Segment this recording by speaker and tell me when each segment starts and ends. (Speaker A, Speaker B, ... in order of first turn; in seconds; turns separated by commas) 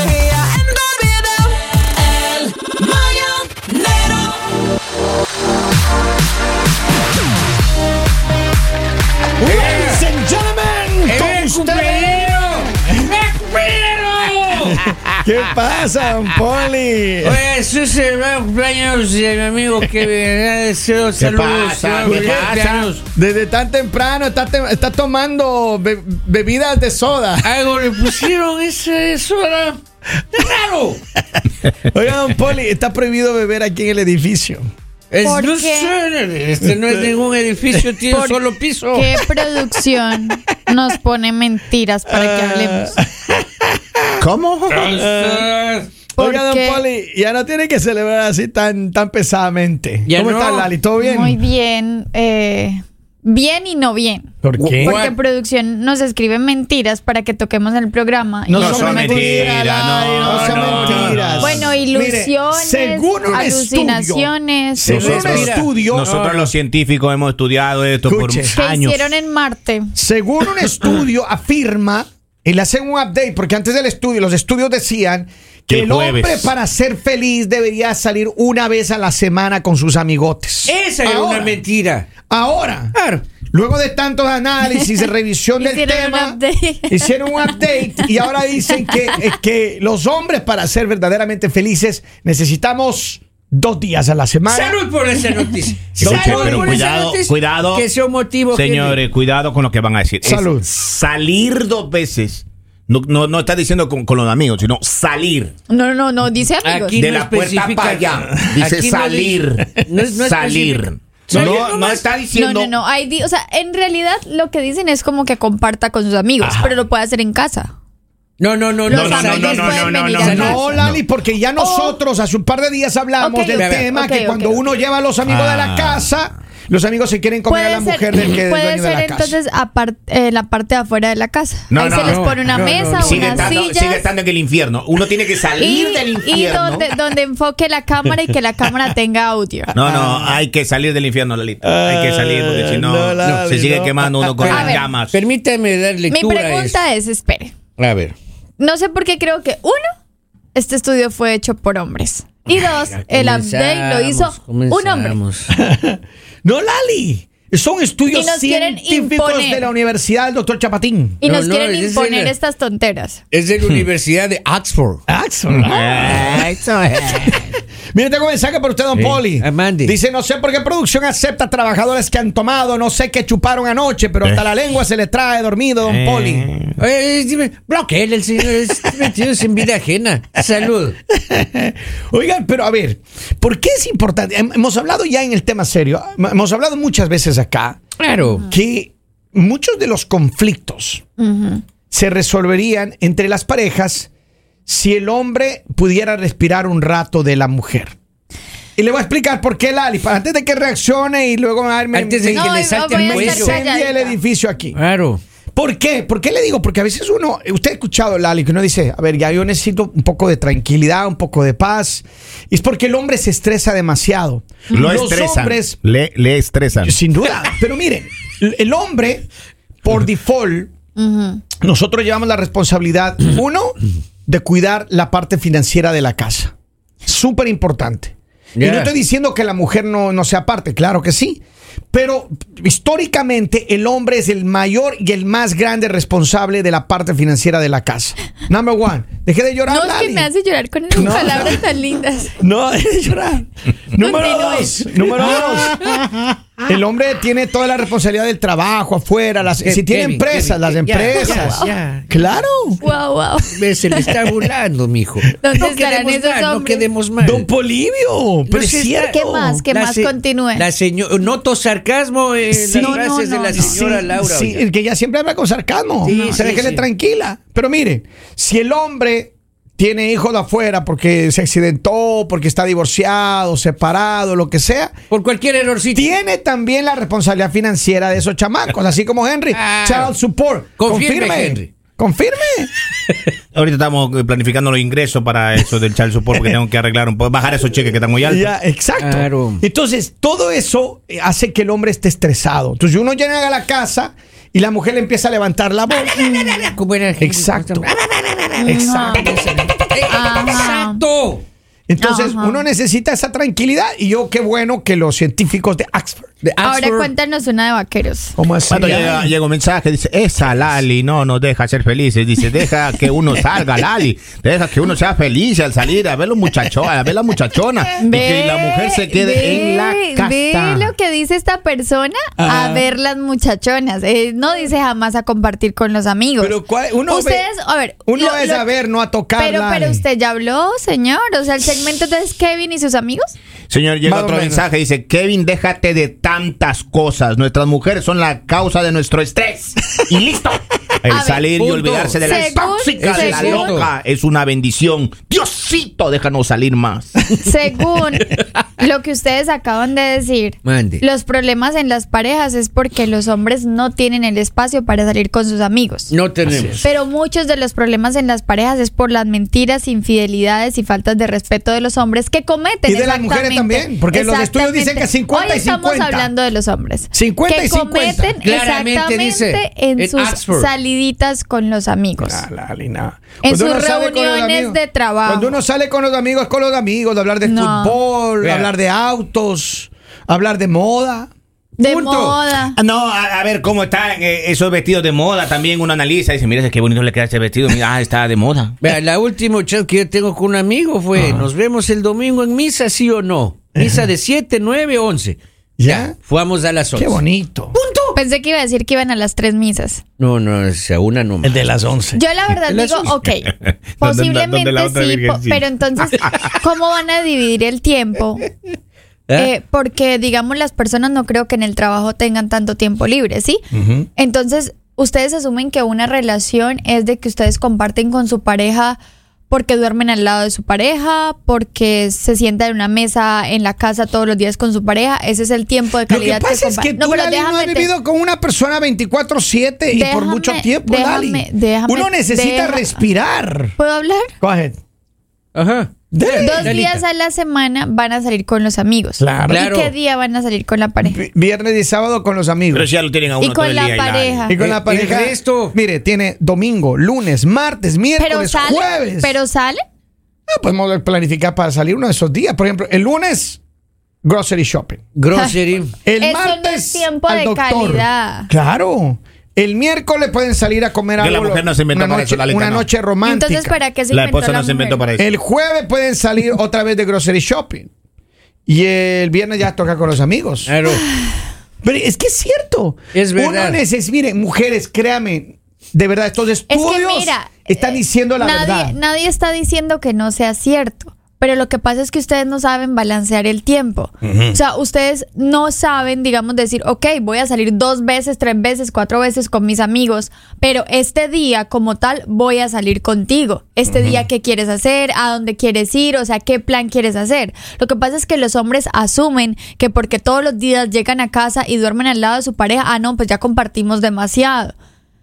Speaker A: 2.0-4.3, Speaker B: 9.4-12.3, Speaker A: 9.4-10.1, Speaker A: 11.1-15.1, Speaker B: 14.6-17.4, Speaker A: 17.2-23.0, Speaker C: 21.2-22.9, Speaker B: 22.0-22.6, Speaker B: 23.1-27.5, Speaker A: 27.4-29.8, Speaker A: 30.3-31.0, Speaker B: 31.9-34.7, Speaker A: 35.1-39.4, Speaker D: 35.2-36.0, Speaker B: 36.7-37.1, Speaker D: 38.1-38.4, Speaker D: 38.9-43.0, Speaker B: 42.1-44.1, Speaker C: 44.2-45.0, Speaker A: 44.7-45.9, Speaker B: 44.9-45.5, Speaker D: 46.2-46.8, Speaker B: 46.2-51.4, Speaker A: 50.1-50.7, Speaker D: 51.0-59.6, Speaker B: 54.4-55.0, Speaker A: 54.6-55.1, Speaker B: 58.5-66.1, Speaker C: 58.5-61.7, Speaker A: 60.0-61.2, Speaker D: 61.4-65.1, Speaker A: 64.9-66.5, Speaker C: 64.9-69.1, Speaker B: 68.1-68.6, Speaker D: 68.5-69.9, Speaker B: 70.0-81.6, Speaker C: 75.7-76.5, Speaker A: 80.7-82.1, Speaker B: 82.3-82.9, Speaker A: 83.0-83.2, Speaker B: 83.5-94.8, Speaker D: 84.8-85.0, Speaker D: 85.6-88.1, Speaker D: 88.7-89.2, Speaker A: 94.5-99.0, Speaker C: 96.0-97.9, Speaker B: 96.0-96.8, Speaker C: 98.5-105.5, Speaker B: 100.2-100.7, Speaker D: 105.7-107.0, Speaker A: 106.6-112.0, Speaker C: 107.0-112.8, Speaker B: 111.3-111.6, Speaker D: 112.3-117.7, Speaker A: 118.4-120.7, Speaker D: 118.9-120.8, Speaker C: 118.9-121.0, Speaker B: 120.2-129.4, Speaker D: 121.6-122.0, Speaker D: 123.2-124.6, Speaker A: 123.6-123.9, Speaker C: 125.3-126.1, Speaker D: 127.5-134.1, Speaker C: 131.7-136.9, Speaker A: 132.0-133.6, Speaker D: 135.6-139.7, Speaker C: 139.7-145.2, Speaker B: 139.8-140.4, Speaker B: 141.6-144.7, Speaker A: 144.4-146.8, Speaker D: 144.5-144.8, Speaker D: 146.1-147.5, Speaker A: 147.8-148.2, Speaker D: 148.6-149.9, Speaker D: 150.6-155.2, Speaker A: 152.6-155.5, Speaker B: 155.5-161.2, Speaker D: 158.1-159.7, Speaker D: 161.2-163.2, Speaker A: 161.2-162.3, Speaker A: 163.3-165.0, Speaker B: 165.1-166.5, Speaker C: 165.5-167.6, Speaker B: 167.9-176.5, Speaker A: 168.9-169.9, Speaker C: 175.9-176.8, Speaker A: 176.8-181.0, Speaker B: 181.1-187.8, Speaker A: 188.0-188.5, Speaker B: 188.4-191.0, Speaker D: 191.2-191.6, Speaker B: 191.9-194.1, Speaker B: 194.7-198.0, Speaker B: 198.8-204.8, Speaker A: 201.9-203.6, Speaker D: 202.3-204.2, Speaker A: 204.8-205.2, Speaker B: 205.6-215.8, Speaker C: 214.7-217.0, Speaker B: 216.8-219.3, Speaker B: 219.8-220.7, Speaker D: 221.0-221.4, Speaker B: 221.6-226.5, Speaker B: 227.1-231.4, Speaker A: 228.6-228.9, Speaker B: 231.9-240.3, Speaker D: 239.7-242.4, Speaker B: 240.9-241.6, Speaker B: 242.4-245.8, Speaker D: 244.0-245.5, Speaker C: 245.2-246.4, Speaker B: 246.7-251.6, Speaker A: 249.6-251.8, Speaker C: 250.9-252.4, Speaker D: 251.1-251.7, Speaker B: 252.1-252.8, Speaker D: 252.8-254.2, Speaker A: 253.5-257.5, Speaker D: 255.4-256.9, Speaker B: 257.2-259.6, Speaker A: 258.5-259.1, Speaker D: 258.9-260.7, Speaker A: 259.7-264.6, Speaker B: 262.5-263.0, Speaker D: 262.8-263.8, Speaker B: 263.5-274.9, Speaker A: 266.0-266.9, Speaker D: 266.1-266.4, Speaker A: 275.1-276.1, Speaker B: 275.9-282.7, Speaker A: 279.5-280.1, Speaker A: 280.8-281.7, Speaker C: 283.5-288.5, Speaker B: 288.3-296.3, Speaker A: 289.0-289.6, Speaker A: 296.1-301.4, Speaker B: 297.2-297.9, Speaker D: 298.6-299.3, Speaker B: 298.6-299.7, Speaker D: 300.1-301.0, Speaker B: 301.9-306.3, Speaker D: 302.0-302.6, Speaker A: 306.4-307.1, Speaker D: 306.6-308.4, Speaker B: 308.4-309.3, Speaker C: 308.7-320.9, Speaker A: 308.8-309.1, Speaker D: 318.0-328.7, Speaker B: 322.4-322.9, Speaker B: 326.4-327.5, Speaker B: 328.1-330.0, Speaker D: 329.4-333.4, Speaker C: 333.7-347.2, Speaker B: 334.0-334.7, Speaker D: 341.1-341.4, Speaker A: 341.6-342.5, Speaker D: 342.2-343.8, Speaker A: 343.0-343.9, Speaker D: 347.4-356.1, Speaker A: 350.6-351.0, Speaker A: 356.1-356.8, Speaker B: 356.5-356.8, Speaker D: 356.8-372.4, Speaker B: 362.9-366.3, Speaker B: 367.1-368.4, Speaker A: 368.4-370.7, Speaker B: 372.2-381.3, Speaker D: 373.4-375.6, Speaker D: 377.4-378.0, Speaker A: 378.4-378.7, Speaker D: 381.8-382.8, Speaker A: 381.8-382.4, Speaker C: 382.8-388.8, Speaker A: 388.8-397.2, Speaker B: 391.2-391.5, Speaker B: 395.8-396.1, Speaker B: 396.9-397.8, Speaker A: 397.7-398.2, Speaker D: 398.1-400.0, Speaker A: 400.2-401.7, Speaker B: 401.4-402.2, Speaker D: 402.1-408.4, Speaker C: 402.7-405.6, Speaker C: 406.2-406.5, Speaker D: 409.4-413.6, Speaker B: 413.7-414.1, Speaker D: 414.2-419.0, Speaker D: 419.5-427.9, Speaker B: 426.1-433.8, Speaker D: 429.9-433.1, Speaker D: 433.8-434.3, Speaker B: 434.4-434.8, Speaker A: 435.6-437.0, Speaker B: 436.1-436.8, Speaker D: 436.3-441.2, Speaker B: 439.2-439.7, Speaker A: 439.5-439.9, Speaker B: 441.0-442.9, Speaker C: 442.7-444.6, Speaker D: 443.4-444.6, Speaker B: 444.5-449.4, Speaker A: 444.6-445.8, Speaker D: 448.2-449.8, Speaker B: 450.5-453.6, Speaker B: 454.2-455.0, Speaker A: 455.2-455.9, Speaker B: 456.1-463.8, Speaker D: 456.2-458.5, Speaker C: 461.2-462.9, Speaker D: 463.2-465.0, Speaker C: 464.1-465.3, Speaker B: 465.2-467.9, Speaker B: 468.7-470.7, Speaker A: 470.6-471.1, Speaker B: 471.8-478.9, Speaker A: 473.1-473.8, Speaker D: 476.7-504.8, Speaker B: 484.2-484.6, Speaker B: 493.9-494.2